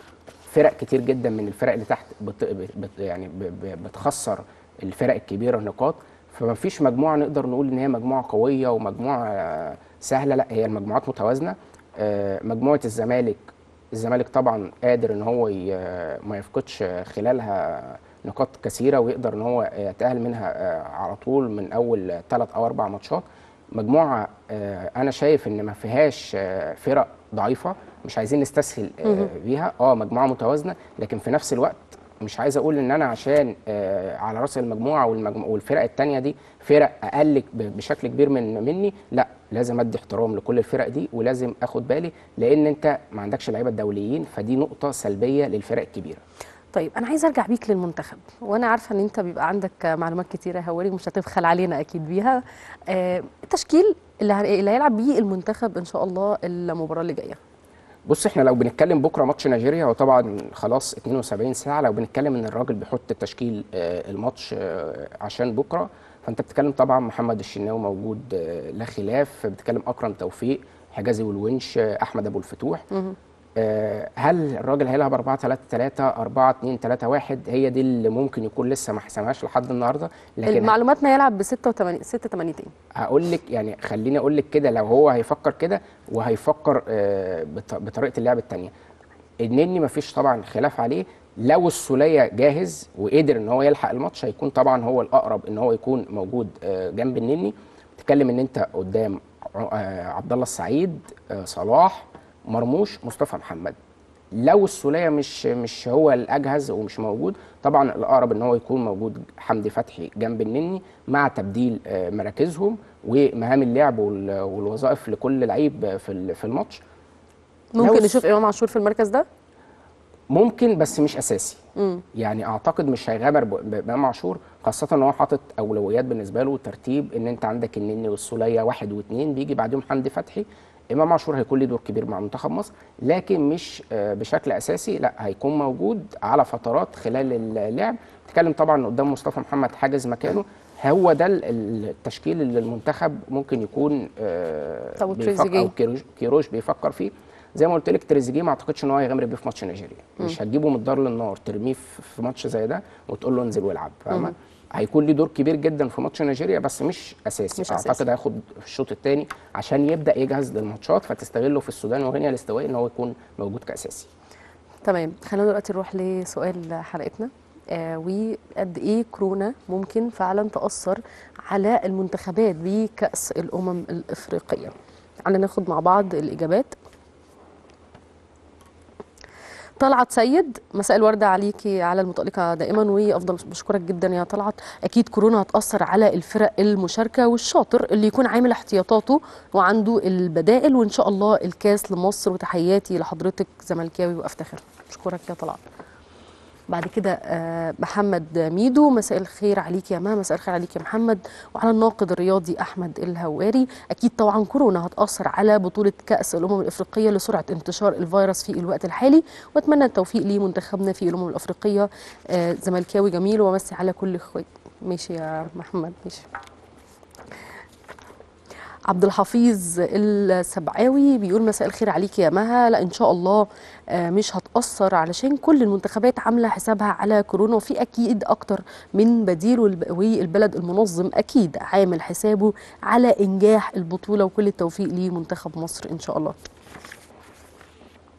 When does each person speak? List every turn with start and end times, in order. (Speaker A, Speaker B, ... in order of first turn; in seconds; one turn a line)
Speaker A: 0.5-46.2
Speaker B: 46.7-57.4
Speaker A: 58.0-72.8
Speaker A: 73.6-80.7
Speaker B: 80.5-82.7
Speaker A: 83.0-88.7
Speaker A: 89.4-103.8
Speaker A: 104.3-116.8
Speaker B: 117.8-119.2
Speaker A: 117.8-118.2
Speaker A: 120.3-121.6
Speaker B: 121.8-122.0
Speaker A: 122.2-164.1
Speaker B: 145.0-145.7
Speaker B: 157.6-158.0
Speaker B: 164.8-176.7
Speaker B: 179.8-195.6
Speaker B: 196.7-216.2
Speaker B: 218.9-236.3